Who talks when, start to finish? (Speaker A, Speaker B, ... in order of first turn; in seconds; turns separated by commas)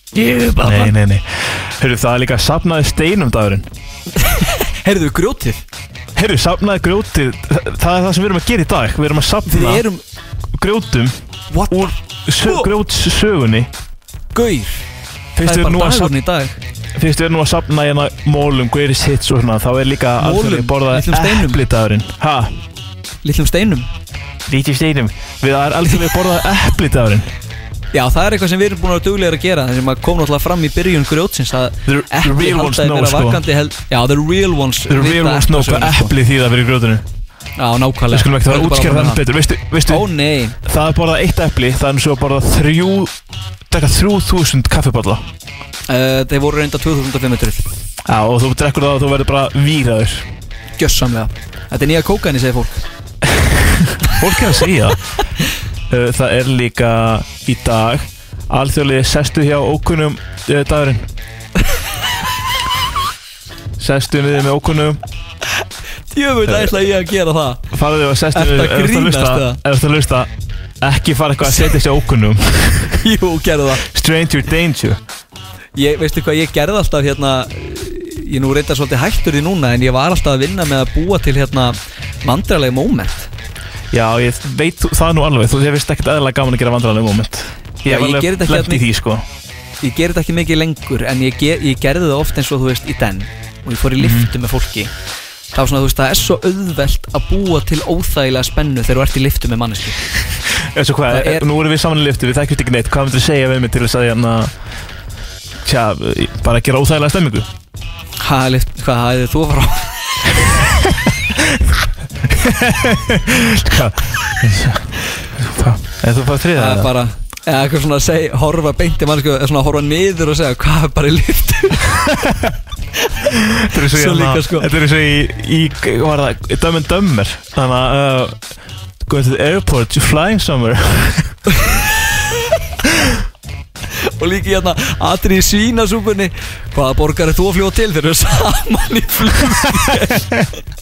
Speaker A: 0.1-0.9, Speaker B: 0.6-3.7, Speaker A: 4.2-5.6, Speaker B: 6.1-9.8, Speaker A: 9.5-10.0, Speaker B: 10.5-11.2, Speaker A: 11.5-12.7, Speaker B: 11.7-13.7, Speaker A: 14.3-14.8, Speaker B: 15.3-16.1, Speaker A: 15.4-16.6, Speaker B: 16.9-22.6, Speaker A: 20.2-21.6, Speaker A: 23.2-23.9, Speaker B: 24.4-27.3, Speaker A: 27.9-36.1, Speaker B: 31.9-33.4, Speaker B: 34.9-37.0, Speaker A: 37.6-39.2, Speaker B: 38.1-40.1, Speaker A: 39.9-40.5, Speaker B: 40.6-43.1, Speaker B: 43.7-45.2, Speaker A: 45.9-47.7, Speaker B: 48.0-50.3, Speaker A: 50.8-52.8, Speaker B: 53.3-55.0, Speaker B: 55.9-61.1, Speaker B: 63.8-65.0, Speaker A: 66.1-67.7, Speaker B: 66.5-66.7, Speaker B: 67.7-73.0, Speaker A: 68.3-69.6, Speaker A: 71.4-71.8, Speaker A: 73.0-73.8, Speaker B: 73.8-75.0, Speaker A: 75.8-83.3, Speaker B: 83.9-89.2, Speaker A: 87.8-88.8, Speaker A: 89.8-94.9, Speaker B: 94.0-94.3, Speaker A: 95.5-100.0, Speaker B: 100.7-104.5, Speaker A: 101.1-101.4, Speaker B: 105.6-107.5, Speaker A: 108.2-110.5, Speaker B: 112.2-116.9, Speaker A: 116.5-122.0, Speaker B: 122.2-122.5, Speaker B: 123.6-128.4, Speaker A: 123.8-124.7, Speaker B: 129.0-131.3, Speaker A: 131.6-131.9, Speaker A: 134.2-140.3